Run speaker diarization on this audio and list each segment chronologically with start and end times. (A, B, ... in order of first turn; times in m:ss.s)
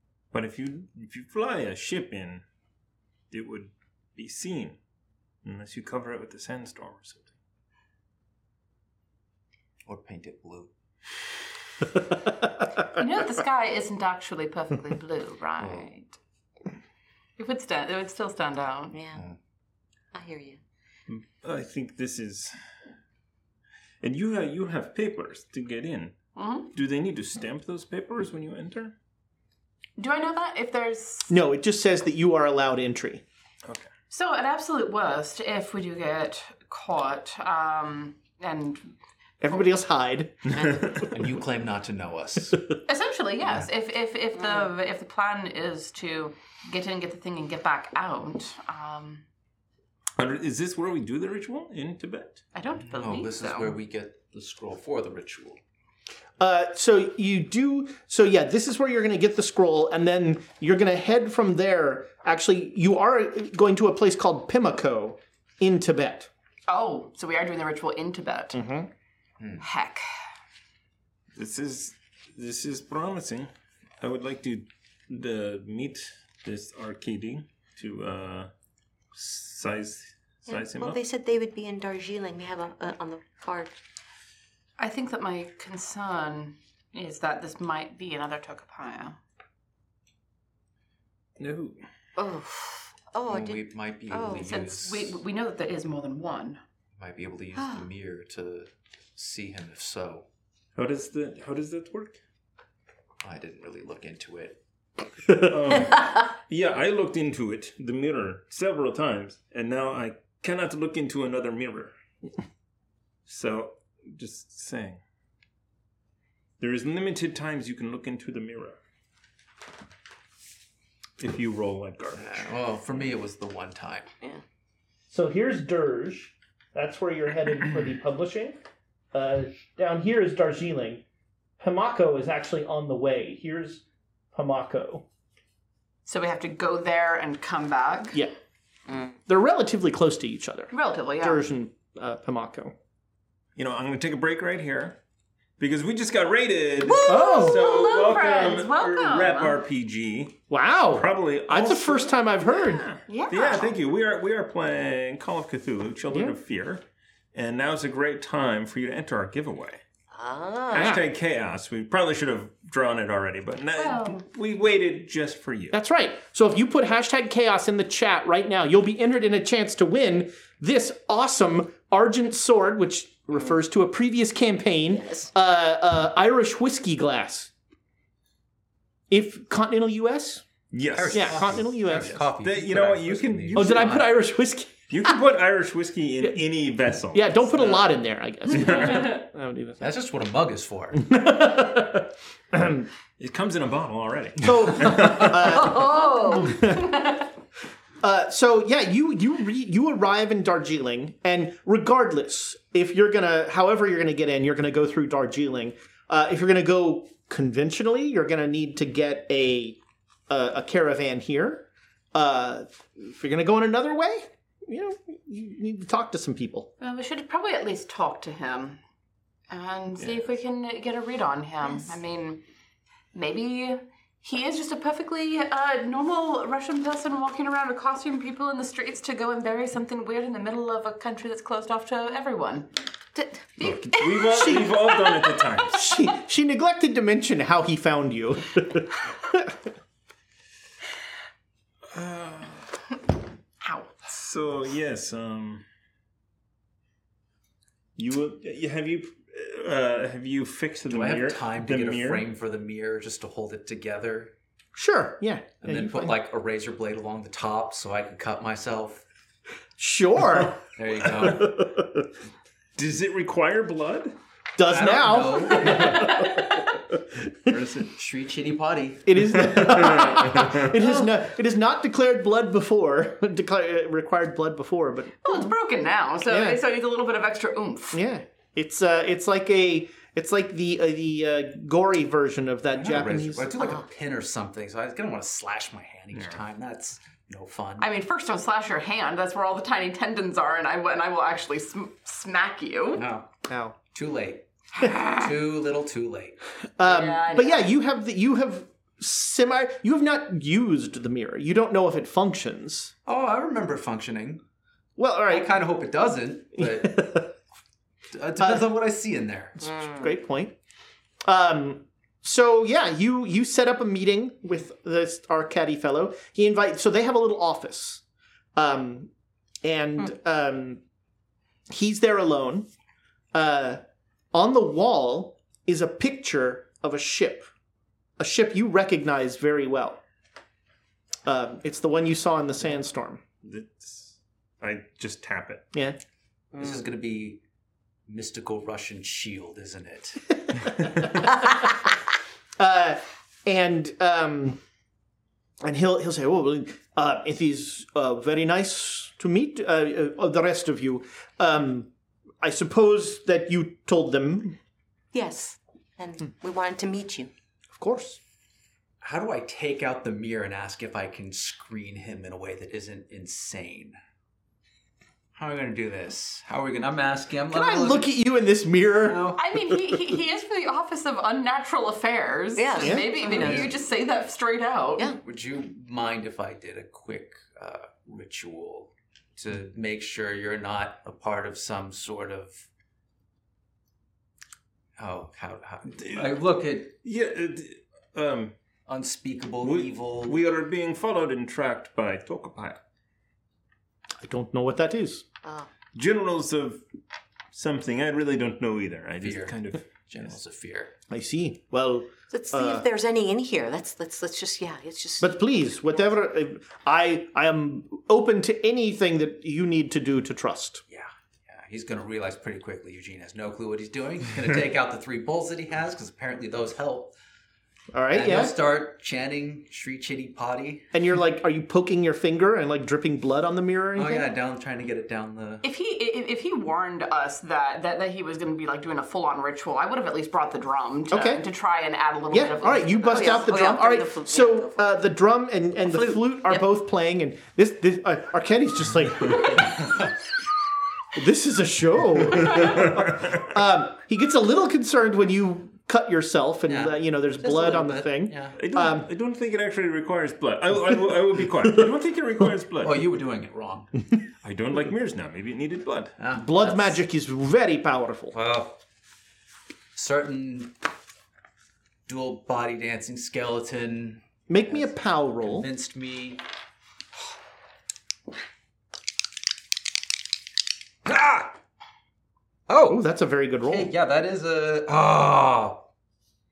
0:00.3-0:02.4 A
0:03.3-0:04.8 A
0:05.4-0:07.3 A
0:09.8-0:10.7 B
0:12.1-0:12.4 C
0:12.9-0:16.2 D
0:15.6-0:15.8 B
0:17.4-0:19.0 D
0:18.9-0:19.2 E
0:20.1-0:20.6 E
0:21.1-0:22.6 A
0:24.0-0:26.2 A
0:26.3-0:26.7 D
0:26.7-0:28.9 A
0:30.0-0:31.3 D
0:31.3-0:33.2 C
0:34.1-0:38.9 D
0:39.4-0:41.1 C
0:40.7-0:42.6 B
0:42.8-0:49.2 D
0:50.2-0:52.4 A
0:52.5-0:53.7 D
0:52.8-0:55.6 B
0:56.4-1:06.3 C
1:06.7-1:08.6 D
1:08.5-1:08.9 C
1:09.6-1:10.0 D
1:11.3-1:18.5 A
1:19.1-1:21.0 A
1:20.5-1:23.7 E
1:24.8-1:29.2 D
1:31.4-1:31.8 A
1:32.2-1:34.4 E
1:33.2-1:35.2 B
1:34.3-1:36.6 D
1:37.0-1:40.2 B
1:37.6-1:37.8 E
1:40.8-1:42.2 A
1:43.2-1:44.6 B
1:45.3-1:51.9 A
1:53.2-1:55.0 A
1:56.6-1:58.8 A
2:01.2-2:02.5 A
2:02.2-2:04.1 B
2:05.1-2:08.6 C
2:09.1-2:11.0 C
2:11.6-2:15.0 C
2:16.0-2:18.2 D
2:19.3-2:22.7 C
2:20.7-2:21.4 D
2:23.6-2:25.0 A
2:25.6-2:30.4 A
2:26.8-2:29.6 D
2:27.0-2:27.6 C
2:30.5-2:32.8 C
2:30.9-2:36.8 A
2:33.1-2:33.7 D
2:36.1-2:36.4 C
2:37.3-2:39.8 A
2:40.1-2:41.0 E
2:40.7-2:45.8 A
2:40.7-2:41.0 C
2:43.7-2:44.2 D
2:45.7-2:57.5 C
2:54.9-2:55.3 E
2:59.1-3:00.4 C
3:00.7-3:04.0 A
3:00.9-3:04.2 B
3:01.1-3:02.2 C
3:03.5-3:05.1 C
3:04.9-3:07.3 A
3:07.1-3:09.9 C
3:08.6-3:09.0 A
3:08.7-3:09.2 D
3:09.8-3:11.1 B
3:10.9-3:12.9 C
3:13.2-3:15.4 A
3:14.4-3:17.1 C
3:15.5-3:16.5 E
3:15.8-3:17.2 D
3:18.0-3:29.8 C
3:30.3-3:36.7 C
3:36.8-3:38.8 D
3:39.5-3:42.4 D
3:43.1-3:55.7 D
3:53.6-3:55.8 A
3:54.3-3:54.7 C
3:55.7-3:59.5 C
4:01.9-4:02.7 A
4:03.6-4:04.2 D
4:04.1-4:05.6 A
4:08.0-4:12.2 A
4:10.9-4:14.3 B
4:14.7-4:16.1 C
4:15.6-4:19.0 B
4:19.8-4:20.6 C
4:20.8-4:21.6 B
4:21.2-4:22.0 C
4:22.8-4:24.2 A
4:24.6-4:26.6 C
4:24.7-4:26.1 B
4:25.5-4:26.6 D
4:27.5-4:27.8 A
4:27.8-4:29.5 B
4:29.0-4:35.3 C
4:30.1-4:30.6 A
4:35.2-4:38.0 D
4:36.2-4:36.6 C
4:37.9-4:43.7 C
4:42.7-4:47.9 B
4:46.1-4:46.4 A
4:47.8-4:53.0 D
4:52.9-4:53.3 B
4:53.5-4:53.8 C
4:53.9-4:56.4 B
4:56.8-5:02.9 C
4:56.8-4:57.7 D
5:03.0-5:04.4 B
5:05.0-5:05.5 C
5:05.3-5:07.3 B
5:06.6-5:07.3 C
5:08.1-5:09.7 B
5:09.6-5:10.0 E
5:09.7-5:10.5 C
5:11.2-5:18.0 C
5:18.5-5:19.1 C
5:19.6-5:20.8 C
5:21.7-5:22.7 C
5:23.3-5:23.8 C
5:24.3-5:27.5 C
5:28.2-5:30.0 C
5:31.2-5:33.2 C
5:33.4-5:35.7 A
5:36.5-5:37.4 B
5:38.1-5:41.1 B
5:40.6-5:41.7 C
5:42.6-5:44.6 C
5:45.6-5:51.9 C
5:52.4-5:54.6 C
5:55.1-5:57.3 E
5:57.7-5:58.2 C
5:59.0-6:04.0 B
6:05.4-6:08.1 B
6:07.5-6:09.3 C
6:09.0-6:09.4 B
6:09.4-6:15.1 D
6:12.6-6:13.7 E
6:12.8-6:13.2 C
6:13.3-6:13.7 B
6:15.2-6:22.6 B
6:25.0-6:26.9 B
6:26.0-6:26.3 A
6:27.0-6:28.5 A
6:28.9-6:30.4 B
6:29.6-6:32.8 A
6:34.2-6:35.2 C
6:35.9-6:36.8 A
6:37.5-6:39.8 A
6:39.2-6:40.9 B
6:41.1-6:42.8 C
6:42.3-6:45.3 E
6:45.2-6:50.8 C
6:50.9-6:57.1 B
6:57.9-6:58.5 C
6:58.1-7:00.9 B
7:00.9-7:04.3 C
7:03.9-7:05.6 B
7:05.6-7:13.7 D
7:11.1-7:11.4 C
7:12.3-7:20.0 C
7:13.1-7:14.8 E
7:15.9-7:16.6 E
7:21.1-7:29.1 C
7:26.6-7:28.6 B
7:28.6-7:33.0 A
7:32.8-7:33.9 B
7:34.4-7:36.2 A
7:36.2-7:37.0 B
7:36.3-7:38.3 C
7:38.3-7:38.8 B
7:39.9-7:40.8 B
7:42.1-7:46.4 B
7:44.5-7:45.7 C
7:51.0-7:51.5 B
7:52.7-7:53.0 B
7:52.9-7:53.9 C
7:53.6-7:55.8 B